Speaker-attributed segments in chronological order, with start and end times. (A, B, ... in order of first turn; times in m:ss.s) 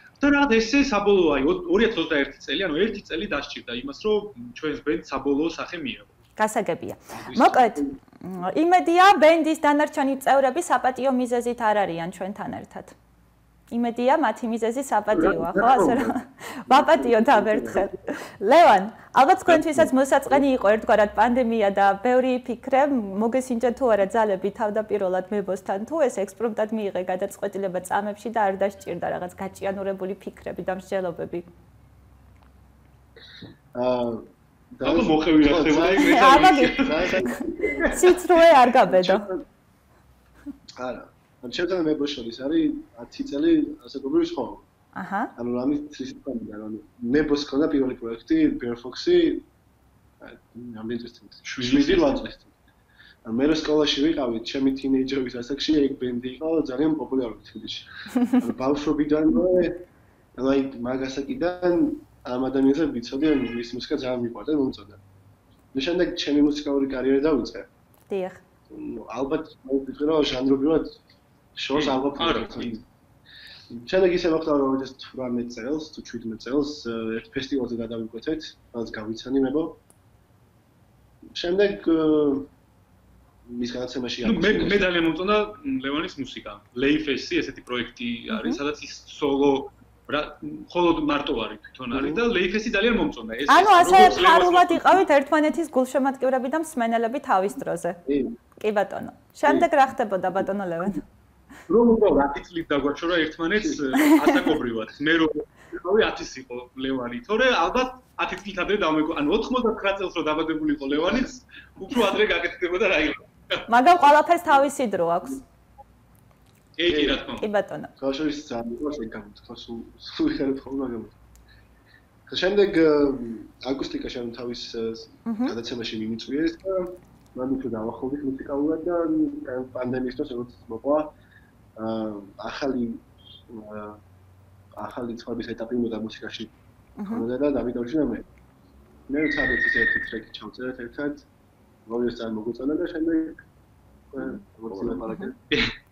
0:00.2-0:06.1 A
0:06.4-0:12.9 B
0:07.1-0:07.9 C
0:13.7-0:31.5 B
0:15.1-0:16.1 A
0:16.7-0:17.7 C
0:19.5-0:19.8 A
0:33.7-0:39.4 C
0:34.8-0:38.1 A
0:36.0-0:39.2 B
0:40.8-0:44.7 C
0:44.9-0:45.3 B
0:45.4-0:49.5 C
0:50.2-0:52.5 C
0:51.4-0:52.3 A
0:53.2-1:05.0 C
1:05.7-1:07.7 C
1:08.1-1:08.4 B
1:08.7-1:11.0 C
1:11.5-1:12.8 C
1:11.7-1:12.8 A
1:13.7-1:19.8 C
1:21.3-1:22.5 C
1:23.4-1:24.9 C
1:24.2-1:35.0 A
1:28.3-1:28.6 B
1:31.9-1:32.2 C
1:33.5-1:38.0 B
1:38.0-1:38.4 C
1:38.6-1:41.0 B
1:41.7-1:53.6 A
1:44.0-1:44.5 B
1:50.9-1:51.3 C
1:53.7-1:55.4 B
1:56.8-1:57.5 A
1:56.9-1:57.2 C
1:57.4-1:57.9 B
1:58.0-2:01.2 C
2:02.3-2:11.1 C
2:05.2-2:05.6 B
2:11.8-2:14.0 C
2:14.7-2:16.5 C
2:17.0-2:17.2 B
2:17.0-2:18.3 C
2:19.1-2:21.3 C
2:21.8-2:23.4 C
2:24.1-2:25.4 C